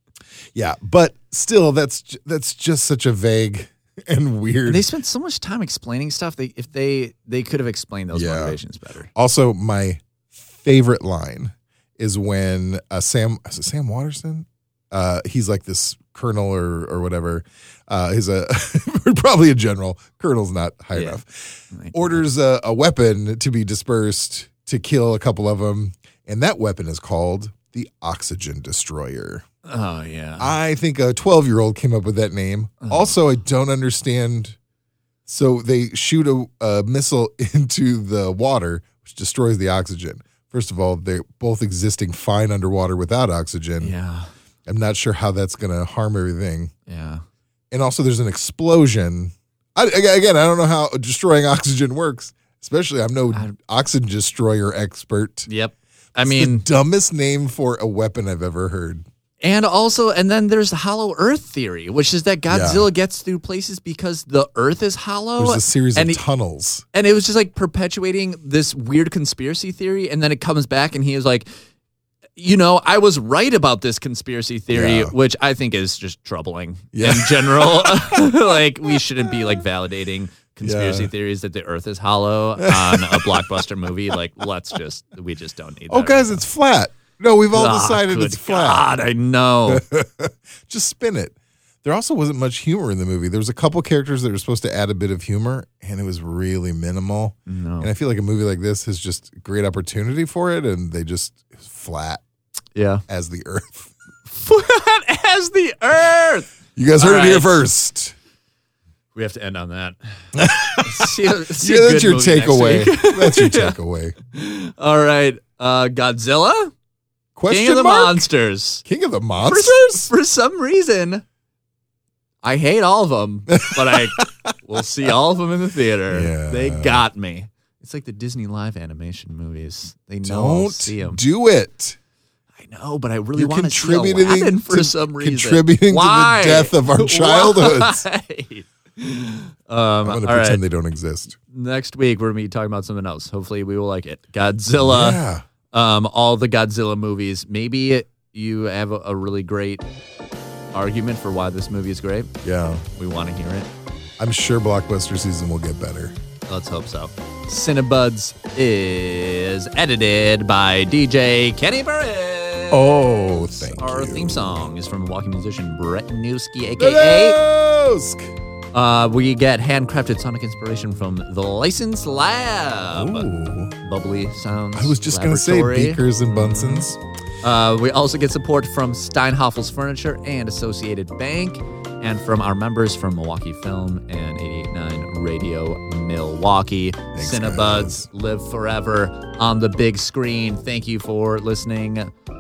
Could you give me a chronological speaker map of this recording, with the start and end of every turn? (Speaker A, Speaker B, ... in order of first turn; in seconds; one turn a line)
Speaker A: 0.6-4.9
Speaker B: 4.7-9.1
Speaker A: 8.1-8.6
Speaker A: 9.2-29.4
Speaker B: 20.9-21.2
Speaker B: 21.7-22.2
Speaker B: 29.7-30.6
Speaker A: 30.4-34.6
Speaker B: 32.8-33.1
Speaker A: 35.3-43.9
Speaker B: 43.8-44.3
Speaker A: 44.7-46.7
Speaker B: 46.9-47.2
Speaker A: 47.7-55.5
Speaker B: 55.5-56.7
Speaker A: 56.2-59.0
Speaker B: 59.4-66.2
Speaker A: 62.5-62.9
Speaker A: 65.4-66.8
Speaker B: 66.9-71.5
Speaker B: 72.4-86.4
Speaker A: 74.7-75.1
Speaker A: 76.9-79.6
Speaker A: 80.6-81.1
Speaker A: 82.6-84.1
Speaker A: 85.9-88.9
Speaker B: 87.5-89.8
Speaker A: 89.7-102.2
Speaker B: 97.5-97.9
Speaker B: 102.8-103.0
Speaker A: 103.1-103.9
Speaker B: 104.3-107.6
Speaker A: 106.8-108.1
Speaker B: 109.2-113.8
Speaker A: 110.4-114.2
Speaker B: 114.3-116.7
Speaker A: 117.4-118.3
Speaker B: 117.5-118.8
Speaker A: 118.8-120.1
Speaker B: 119.4-121.2
Speaker B: 122.4-131.2
Speaker A: 123.6-124.3
Speaker A: 126.1-127.0
Speaker A: 130.2-132.0
Speaker B: 132.6-140.6
Speaker A: 133.4-138.1
Speaker A: 140.0-141.3
Speaker B: 141.4-149.8
Speaker A: 144.8-145.4
Speaker B: 150.7-153.7
Speaker A: 152.4-152.8
Speaker A: 154.2-156.2
Speaker B: 156.5-167.4
Speaker A: 162.7-164.7
Speaker A: 166.8-168.3
Speaker B: 168.7-173.3
Speaker A: 172.9-173.7
Speaker B: 173.8-176.9
Speaker A: 174.7-177.0
Speaker B: 177.4-192.1
Speaker A: 187.1-188.1